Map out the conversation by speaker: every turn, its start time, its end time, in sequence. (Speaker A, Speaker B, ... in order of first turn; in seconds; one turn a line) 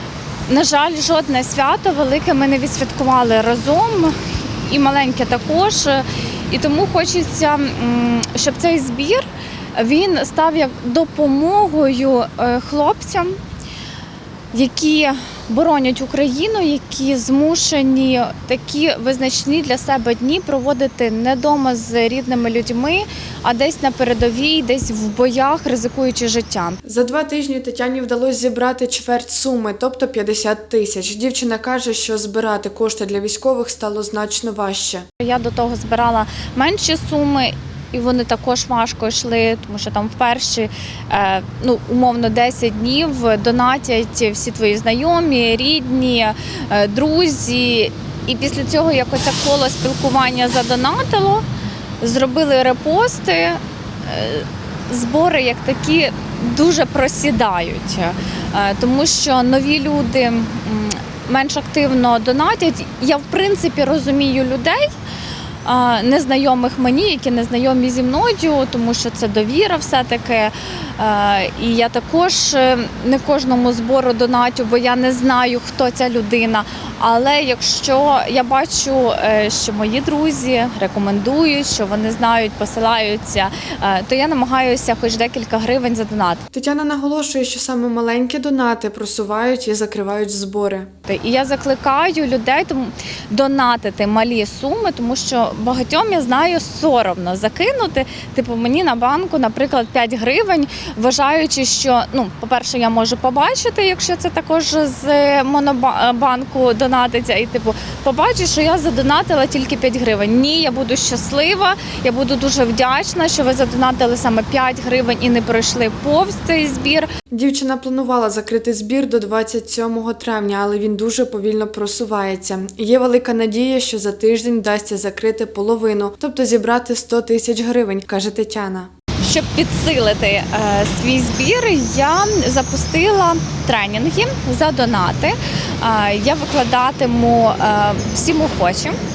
Speaker A: 0.5-13.4
Speaker A: 14.5-26.8
Speaker B: 26.9-35.0
Speaker A: 35.2-51.5
Speaker A: 52.0-64.8
Speaker A: 65.6-86.4
Speaker B: 86.5-90.9
Speaker A: 91.1-117.1
Speaker B: 117.3-128.9
Speaker A: 129.2-139.0